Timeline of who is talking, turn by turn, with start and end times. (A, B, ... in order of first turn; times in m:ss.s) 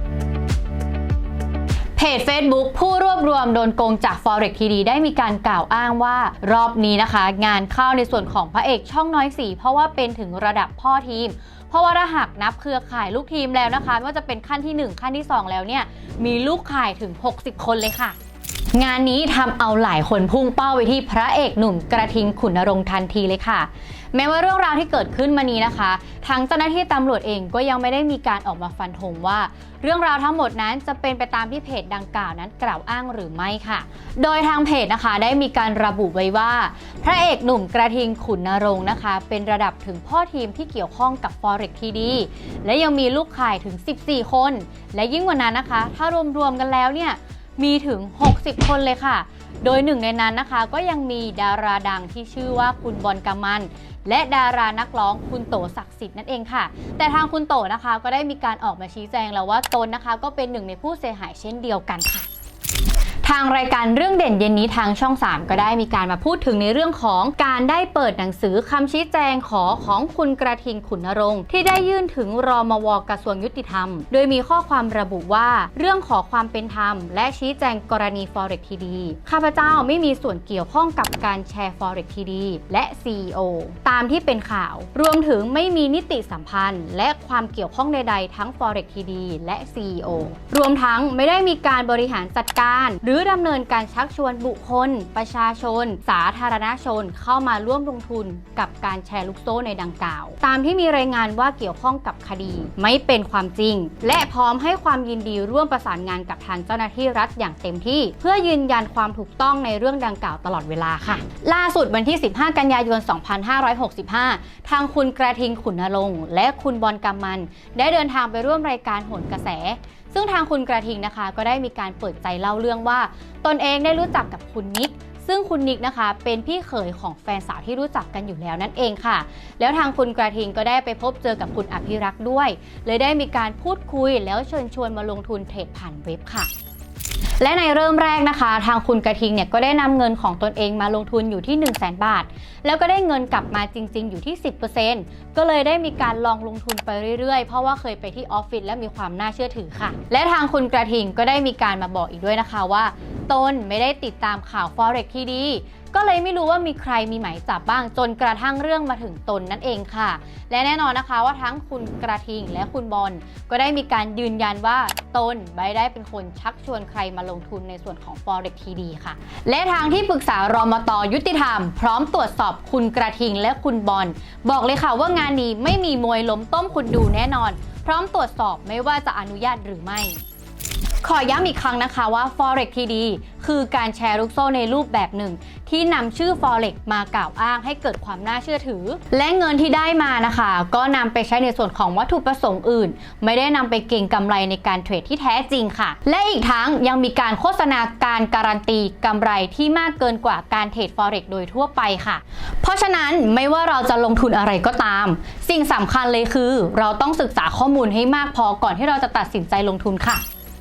0:02.0-0:18.2 A
0:18.7-1:02.3 A
1:03.2-2:16.5 A
2:17.4-3:00.2 A
3:01.0-3:30.2 A